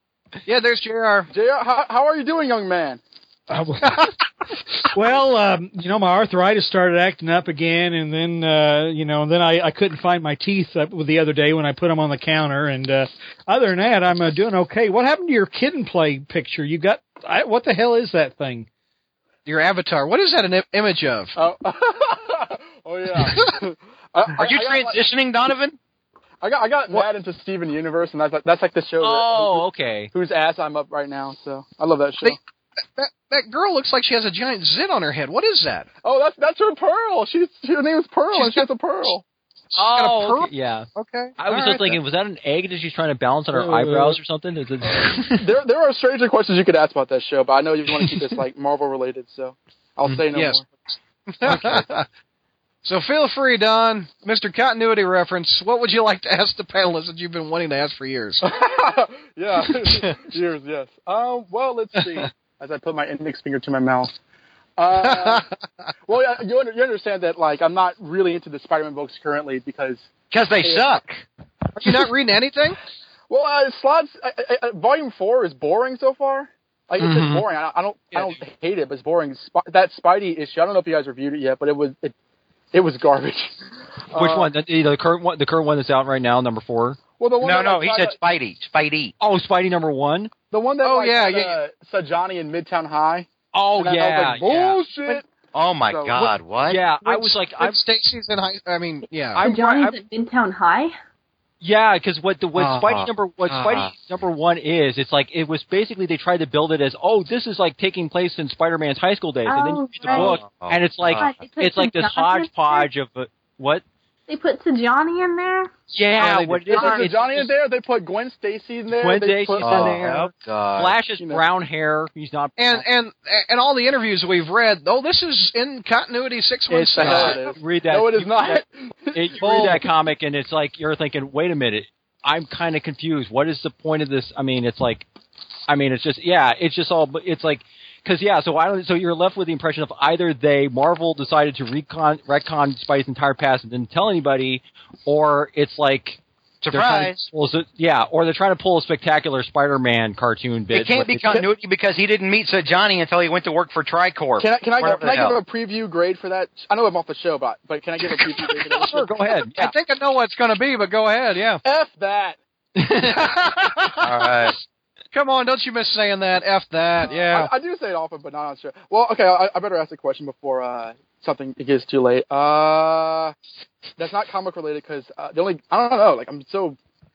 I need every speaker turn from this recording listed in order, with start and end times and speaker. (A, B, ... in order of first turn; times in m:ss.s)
0:00.4-0:01.3 A
0:01.3-0:03.0 B
0:03.5-0:04.1 C
0:04.8-0:18.7 C
0:19.4-0:21.3 A
0:21.4-0:25.0 B
0:24.3-0:25.8 D
0:26.4-0:32.4 B
0:29.0-0:30.1 E
0:32.2-0:35.9 A
0:36.0-0:39.2 B
0:38.3-0:38.6 A
0:39.7-0:42.0 A
0:39.7-0:40.9 E
0:41.4-0:45.5 E
0:45.0-0:50.6 B
0:50.0-0:50.6 A
0:51.3-0:52.0 A
0:51.4-0:51.8 E
0:52.8-0:58.5 A
0:58.4-1:04.1 B
0:59.8-1:00.2 A
1:02.0-1:02.3 A
1:04.8-1:05.5 B
1:04.9-1:05.4 A
1:06.1-1:10.1 B
1:10.3-1:11.2 D
1:11.8-1:12.8 A
1:13.3-1:22.1 B
1:17.0-1:17.4 A
1:22.7-1:23.6 B
1:24.1-1:24.5 B
1:24.1-1:27.0 E
1:27.2-1:28.2 B
1:27.4-1:29.1 D
1:29.2-1:30.3 E
1:30.5-1:35.2 B
1:30.8-1:31.6 A
1:33.5-1:34.8 E
1:35.5-1:36.8 D
1:35.8-1:36.3 B
1:36.7-1:37.8 E
1:37.0-1:39.4 A
1:39.3-1:40.9 F
1:39.4-1:40.0 E
1:41.6-1:53.8 E
1:42.6-1:43.1 A
1:43.5-1:43.9 D
1:49.4-1:50.4 F
1:50.1-1:51.4 D
1:51.1-1:52.9 F
1:54.3-1:55.7 F
1:55.9-1:57.5 E
1:56.2-1:56.7 A
1:56.7-1:57.1 F
1:56.7-2:00.2 B
1:59.0-2:02.8 E
1:59.6-2:01.0 D
2:01.2-2:01.4 B
2:02.6-2:07.5 A
2:06.7-2:08.6 E
2:06.9-2:09.8 B
2:09.1-2:15.0 E
2:15.7-2:31.3 E
2:26.6-2:27.2 D
2:30.7-2:35.4 D
2:34.4-2:39.2 B
2:38.7-2:39.7 E
2:39.5-2:41.6 A
2:41.6-2:42.4 B
2:42.8-2:43.1 E
2:43.0-2:44.3 A
2:44.0-2:44.6 D
2:45.1-2:47.5 A
2:47.1-2:53.3 B
2:54.0-2:56.8 B